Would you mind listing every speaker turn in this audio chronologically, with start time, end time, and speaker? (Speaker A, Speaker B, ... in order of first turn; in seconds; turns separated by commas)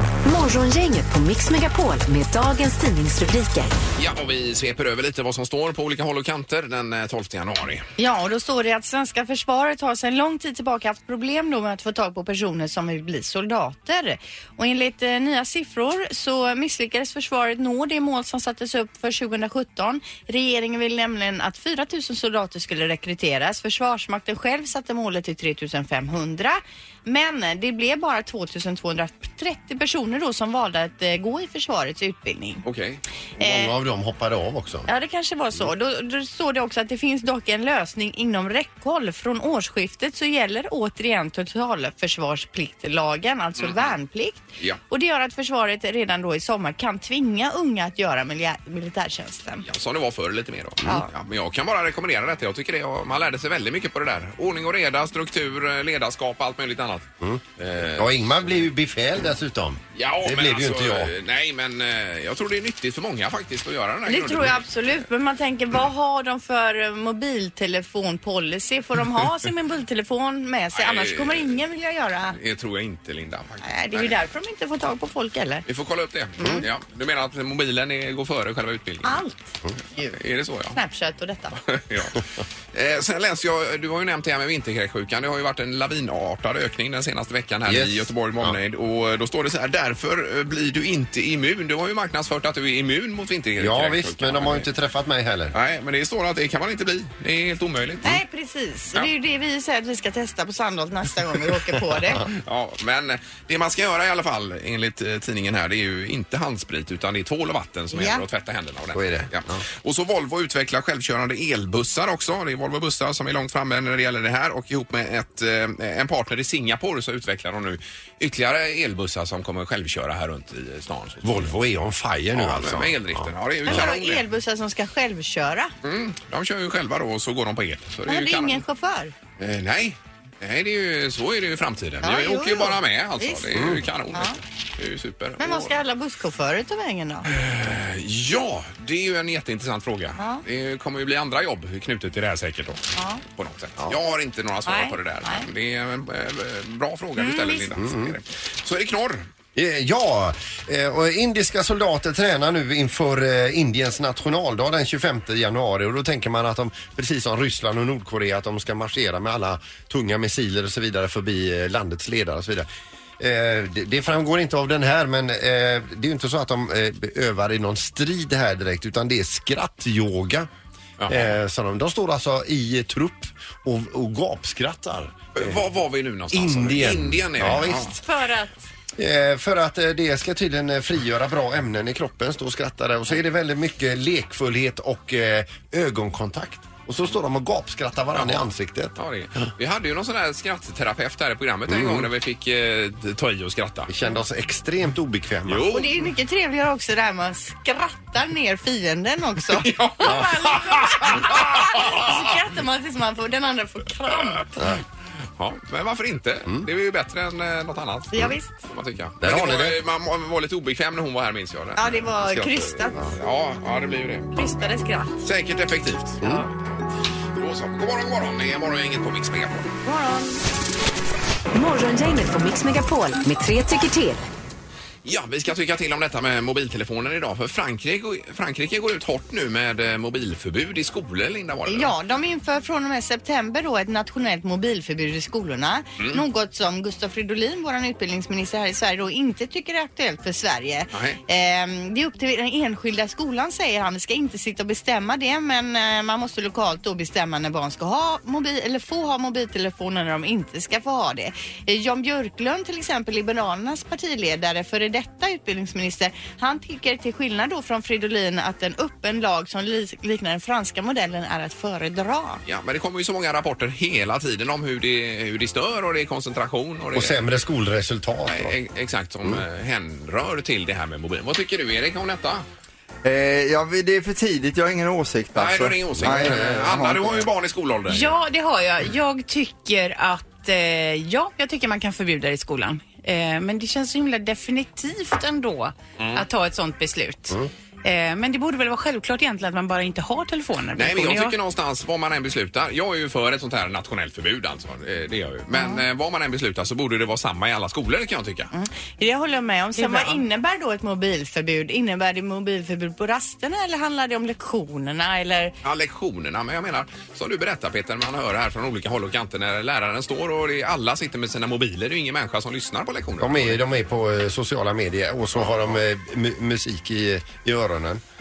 Speaker A: 0.3-3.8, Speaker B: 4.0-7.9, Speaker C: 8.0-32.6, Speaker B: 32.6-33.0, Speaker D: 33.4-34.9, Speaker C: 33.4-33.7, Speaker C: 34.9-49.7, Speaker B: 43.6-44.0, Speaker B: 49.7-57.1, Speaker B: 57.6-58.5, Speaker D: 57.9-61.1, Speaker B: 59.9-65.0, Speaker C: 64.1-72.4, Speaker B: 70.8-71.6, Speaker B: 72.3-74.2, Speaker C: 73.6-75.7, Speaker B: 75.7-79.2, Speaker C: 76.4-76.7, Speaker C: 79.0-80.2, Speaker B: 80.2-80.8, Speaker C: 80.7-81.6, Speaker B: 81.7-82.2, Speaker B: 82.7-94.7, Speaker D: 87.7-88.6, Speaker D: 93.6-95.5, Speaker B: 95.5-98.2, Speaker C: 98.0-102.2, Speaker B: 102.3-121.5, Speaker C: 107.9-108.2, Speaker D: 108.9-109.6, Speaker D: 121.2-123.9, Speaker B: 122.3-124.2, Speaker C: 123.7-125.7, Speaker B: 125.8-128.6, Speaker C: 128.1-129.1, Speaker B: 129.4-135.7, Speaker C: 132.0-133.4, Speaker D: 133.5-133.8, Speaker C: 135.4-137.3, Speaker B: 137.3-149.3, Speaker C: 140.2-140.4, Speaker C: 143.0-143.2, Speaker C: 144.7-145.5, Speaker C: 147.2-147.7, Speaker D: 147.8-148.2, Speaker D: 149.6-162.7, Speaker D: 163.2-170.5, Speaker B: 171.0-171.3, Speaker D: 171.1-175.6, Speaker B: 175.3-178.0, Speaker D: 176.3-178.0, Speaker C: 178.0-178.7, Speaker D: 179.0-189.0, Speaker B: 188.1-193.9, Speaker D: 191.7-192.1, Speaker D: 193.9-195.8, Speaker B: 195.5-195.9, Speaker C: 195.7-204.5, Speaker B: 199.6-202.2, Speaker B: 205.4-216.2, Speaker C: 208.1-208.6, Speaker D: 209.2-209.8, Speaker C: 211.8-213.1, Speaker C: 214.4-215.2, Speaker C: 216.2-216.5, Speaker B: 217.3-219.7, Speaker C: 219.8-220.4, Speaker A: 221.5-224.3, Speaker B: 225.1-231.9, Speaker C: 231.7-262.4, Speaker B: 240.9-241.2, Speaker B: 262.4-267.2, Speaker D: 266.9-268.6, Speaker B: 268.3-272.4, Speaker E: 273.0-277.3, Speaker B: 275.4-278.1, Speaker D: 276.0-276.8, Speaker F: 277.9-291.4, Speaker B: 286.0-286.2, Speaker B: 290.7-298.5, Speaker C: 295.5-295.8, Speaker C: 298.5-305.5, Speaker F: 299.8-300.2, Speaker B: 305.6-313.6, Speaker D: 313.2-318.0, Speaker B: 315.3-315.8